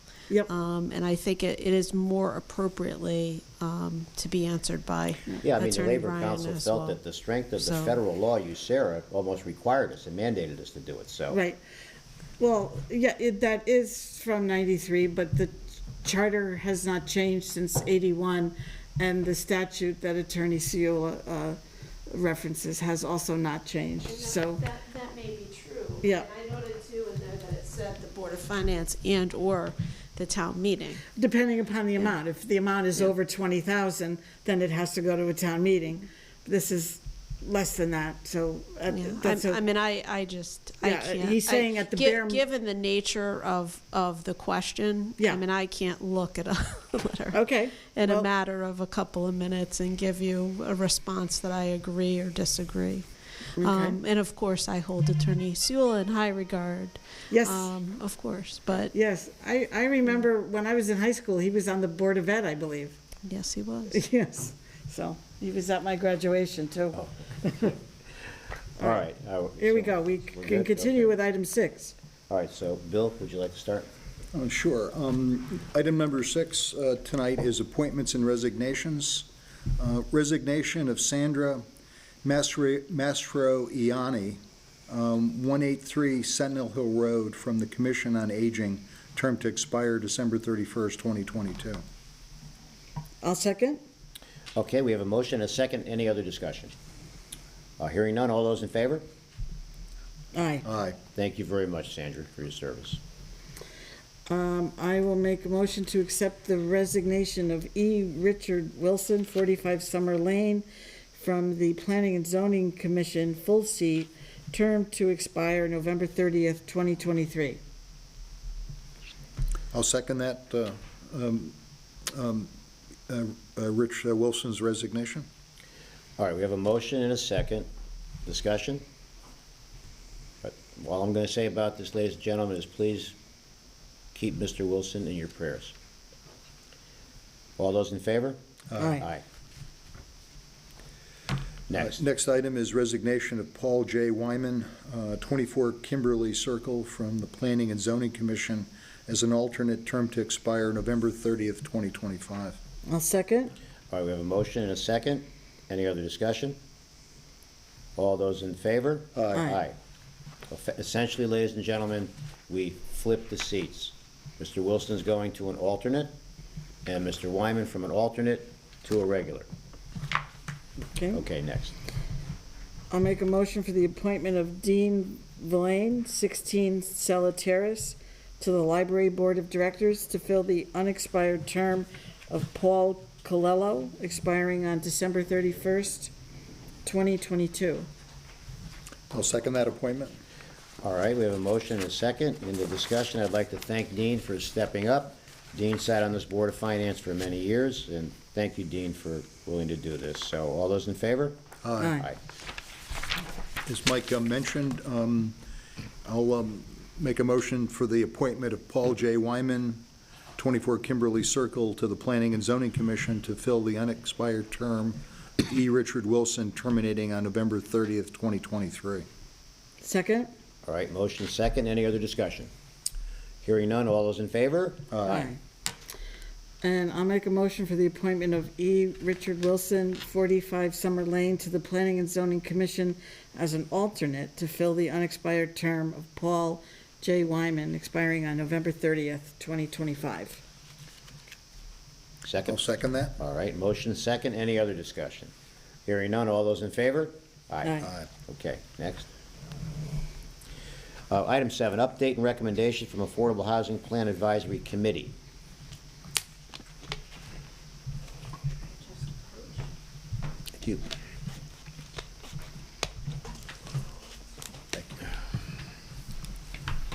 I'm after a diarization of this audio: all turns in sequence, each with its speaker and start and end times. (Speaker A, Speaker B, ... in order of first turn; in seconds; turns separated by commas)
Speaker A: 0.5-7.0, Speaker B: 5.4-11.4, Speaker A: 7.6-8.0, Speaker C: 11.3-11.6, Speaker C: 12.4-24.6, Speaker A: 24.1-31.0, Speaker C: 26.0-26.3, Speaker C: 31.1-39.6, Speaker A: 38.9-53.0, Speaker C: 40.8-42.4, Speaker C: 47.3-48.3, Speaker C: 53.6-54.0, Speaker A: 53.6-58.9, Speaker C: 57.3-57.7, Speaker C: 58.9-63.0, Speaker A: 63.2-64.0, Speaker C: 63.9-67.8, Speaker B: 68.8-71.1, Speaker C: 69.6-71.9, Speaker B: 72.3-73.9, Speaker D: 74.3-79.3, Speaker D: 79.8-81.6, Speaker D: 82.2-84.4, Speaker D: 84.9-91.8, Speaker C: 93.2-93.8, Speaker B: 94.5-96.7, Speaker B: 97.8-99.1, Speaker C: 100.3-100.7, Speaker D: 100.6-101.0, Speaker B: 101.1-103.0, Speaker C: 104.3-117.6, Speaker D: 119.7-121.5, Speaker D: 122.1-122.5, Speaker D: 123.1-125.3, Speaker B: 126.2-127.7, Speaker B: 128.3-128.8, Speaker B: 130.4-133.1, Speaker B: 134.2-135.7, Speaker B: 137.6-138.4, Speaker C: 138.8-139.1, Speaker B: 138.9-139.2, Speaker B: 141.7-142.0, Speaker D: 141.8-152.6, Speaker C: 152.9-153.5, Speaker B: 153.9-156.6, Speaker B: 158.0-159.8, Speaker D: 159.2-159.5, Speaker B: 160.5-166.1, Speaker B: 166.9-169.5, Speaker C: 171.0-171.2, Speaker B: 171.1-171.8, Speaker C: 172.9-186.1, Speaker C: 186.8-187.9, Speaker D: 189.1-190.2, Speaker B: 190.8-201.4, Speaker D: 201.6-202.0, Speaker C: 201.8-202.1, Speaker D: 203.7-205.4, Speaker D: 206.1-209.8, Speaker D: 210.4-219.1, Speaker C: 219.8-220.3, Speaker B: 220.6-222.5, Speaker B: 223.4-225.3, Speaker D: 224.9-225.3, Speaker C: 225.1-225.4, Speaker C: 226.6-240.4, Speaker B: 242.2-242.6, Speaker D: 242.5-243.2, Speaker B: 243.2-245.3, Speaker B: 245.9-249.1, Speaker C: 247.6-247.9, Speaker B: 251.1-255.1, Speaker A: 258.8-259.6